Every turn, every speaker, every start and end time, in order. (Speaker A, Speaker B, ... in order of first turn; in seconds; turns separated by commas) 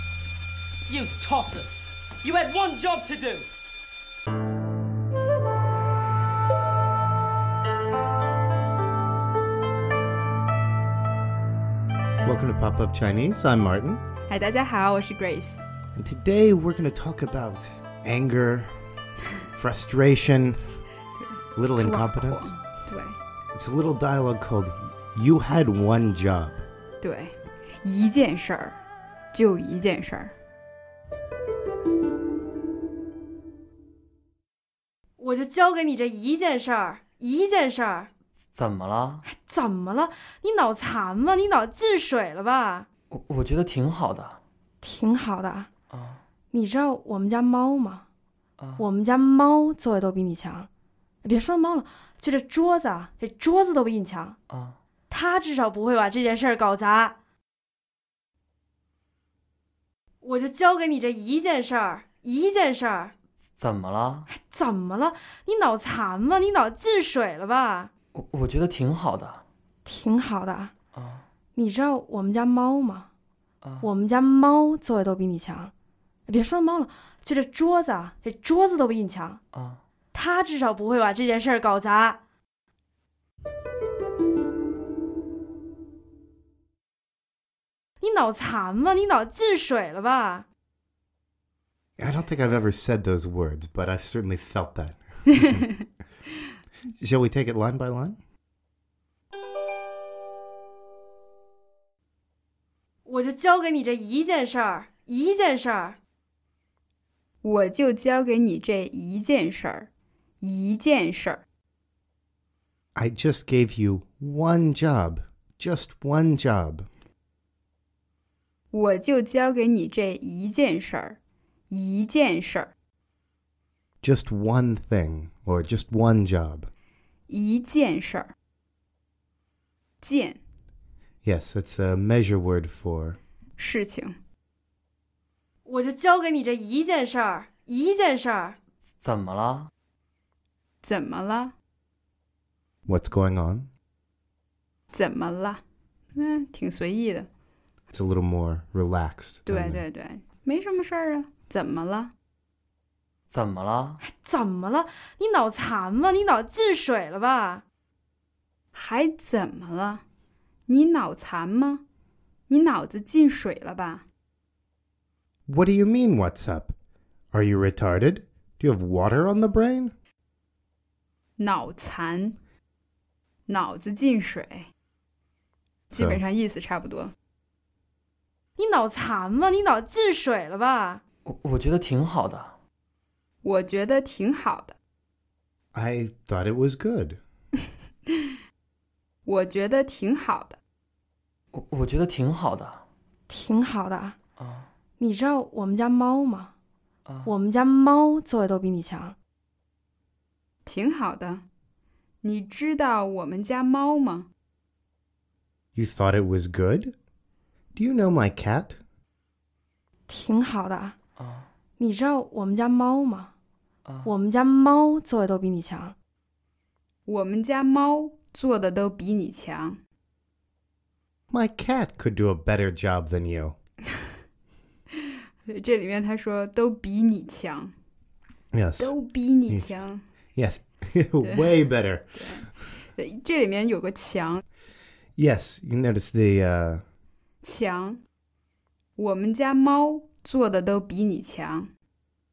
Speaker A: 0.9-3.5, Speaker B: 12.2-14.0, Speaker C: 14.3-15.6, Speaker B: 15.9-18.7, Speaker B: 19.5-20.6, Speaker B: 21.5-22.5, Speaker C: 21.8-23.2, Speaker B: 23.5-26.6, Speaker C: 27.0-28.8, Speaker C: 29.3-30.3, Speaker D: 35.2-38.1, Speaker E: 38.5-39.2, Speaker D: 39.2-42.9, Speaker E: 43.1-44.4, Speaker D: 44.8-45.7, Speaker E: 45.9-46.2, Speaker D: 46.5-48.0, Speaker E: 48.6-48.8, Speaker D: 48.8-50.7, Speaker D: 51.2-54.4, Speaker E: 54.5-54.8, Speaker D: 55.1-57.1, Speaker D: 60.2-63.1, Speaker E: 63.6-64.3, Speaker D: 64.3-67.9, Speaker E: 68.1-69.4, Speaker D: 69.8-70.7, Speaker E: 70.9-71.2, Speaker D: 71.5-73.1, Speaker D: 73.8-75.7, Speaker D: 76.3-79.4, Speaker E: 79.5-79.8, Speaker D: 80.1-82.2, Speaker D: 88.0-90.5, Speaker B: 92.0-95.7, Speaker B: 97.0-98.2, Speaker D: 103.0-106.0, Speaker C: 107.4-109.9, Speaker C: 110.4-111.4, Speaker B: 112.9-116.9, Speaker C: 118.7-121.2, Speaker C: 121.7-122.7, Speaker B: 124.0-126.7, Speaker C: 127.3-128.3, Speaker C: 130.0-130.4, Speaker B: 131.2-133.2, Speaker C: 133.6-134.2, Speaker D: 135.7-138.6, Speaker E: 139.0-139.7, Speaker C: 140.8-141.5, Speaker B: 142.8-143.7, Speaker C: 144.9-145.6, Speaker C: 146.1-147.3, Speaker B: 147.9-149.8, Speaker C: 149.5-152.1, Speaker E: 153.3-154.0, Speaker D: 154.0-157.6, Speaker C: 158.7-160.0, Speaker C: 160.7-161.8, Speaker C: 162.5-164.0, Speaker B: 165.5-166.7, Speaker B: 167.3-169.9, Speaker C: 171.4-172.3, Speaker C: 173.5-174.7, Speaker C: 175.9-177.1, Speaker B: 175.9-176.2, Speaker D: 178.6-181.0, Speaker E: 181.2-182.5, Speaker C: 183.4-184.7, Speaker B: 185.7-187.2, Speaker C: 189.2-190.6, Speaker E: 191.5-192.8, Speaker D: 193.3-194.2, Speaker E: 194.4-194.7, Speaker D: 195.0-196.5, Speaker D: 197.2-199.2, Speaker C: 200.6-201.4, Speaker C: 202.2-204.3, Speaker B: 205.7-206.9, Speaker B: 207.8-208.8, Speaker D: 210.1-211.0, Speaker E: 211.2-211.4, Speaker D: 211.8-213.3, Speaker D: 214.0-215.9, Speaker C: 217.1-219.8, Speaker B: 221.3-223.6, Speaker C: 225.1-227.7, Speaker B: 228.5-228.9, Speaker C: 228.8-230.0, Speaker B: 229.5-229.7, Speaker B: 230.3-232.1, Speaker C: 231.2-231.6, Speaker C: 232.1-234.4, Speaker B: 235.2-236.8, Speaker C: 237.4-238.0, Speaker C: 239.0-241.7